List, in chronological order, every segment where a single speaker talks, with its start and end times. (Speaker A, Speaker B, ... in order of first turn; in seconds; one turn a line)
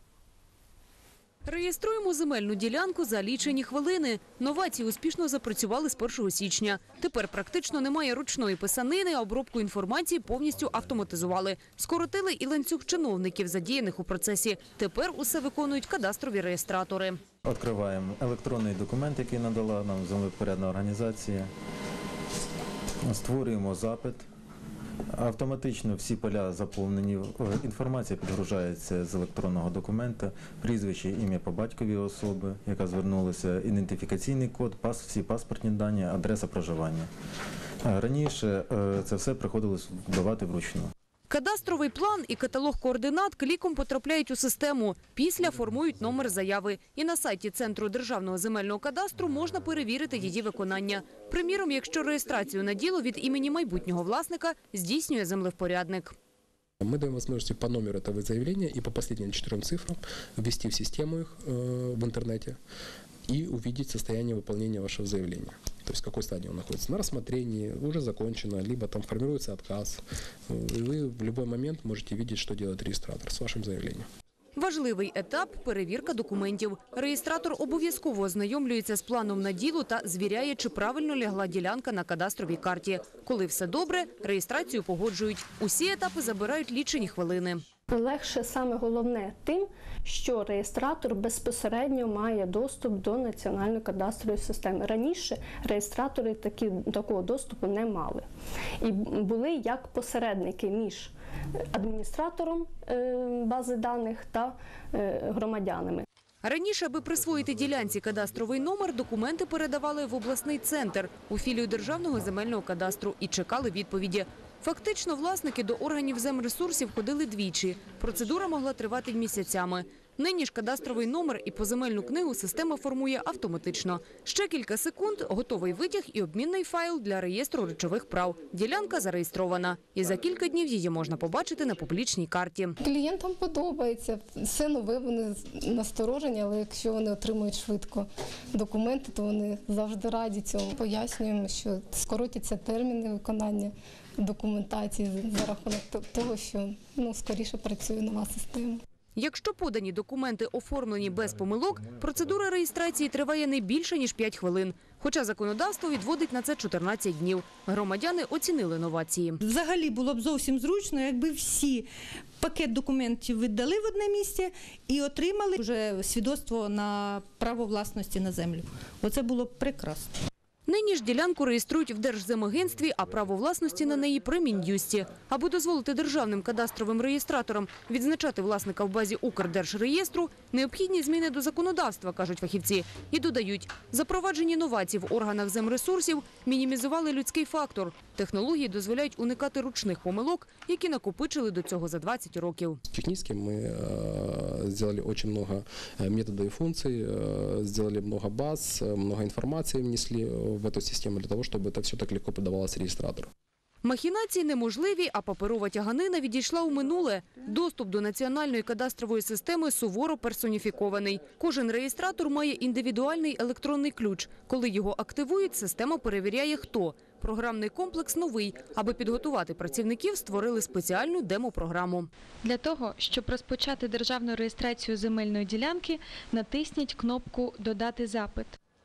Speaker A: 1.5-17.2
Speaker B: 17.4-21.5
Speaker B: 23.0-24.2
Speaker B: 25.1-37.1
Speaker B: 37.8-40.9
Speaker A: 41.3-56.1
Speaker C: 56.8-62.6
Speaker C: 63.3-74.1
Speaker A: 74.5-87.6
Speaker D: 87.9-98.2
Speaker D: 98.8-101.1
Speaker D: 101.7-106.0
Speaker A: 106.4-132.8
Speaker E: 132.8-148.8
Speaker A: 149.2-159.4
Speaker F: 159.4-161.9
Speaker F: 162.4-170.1
Speaker A: 170.7-192.8
Speaker C: 192.9-203.3
Speaker A: 203.8-222.1
Speaker G: 222.4-228.6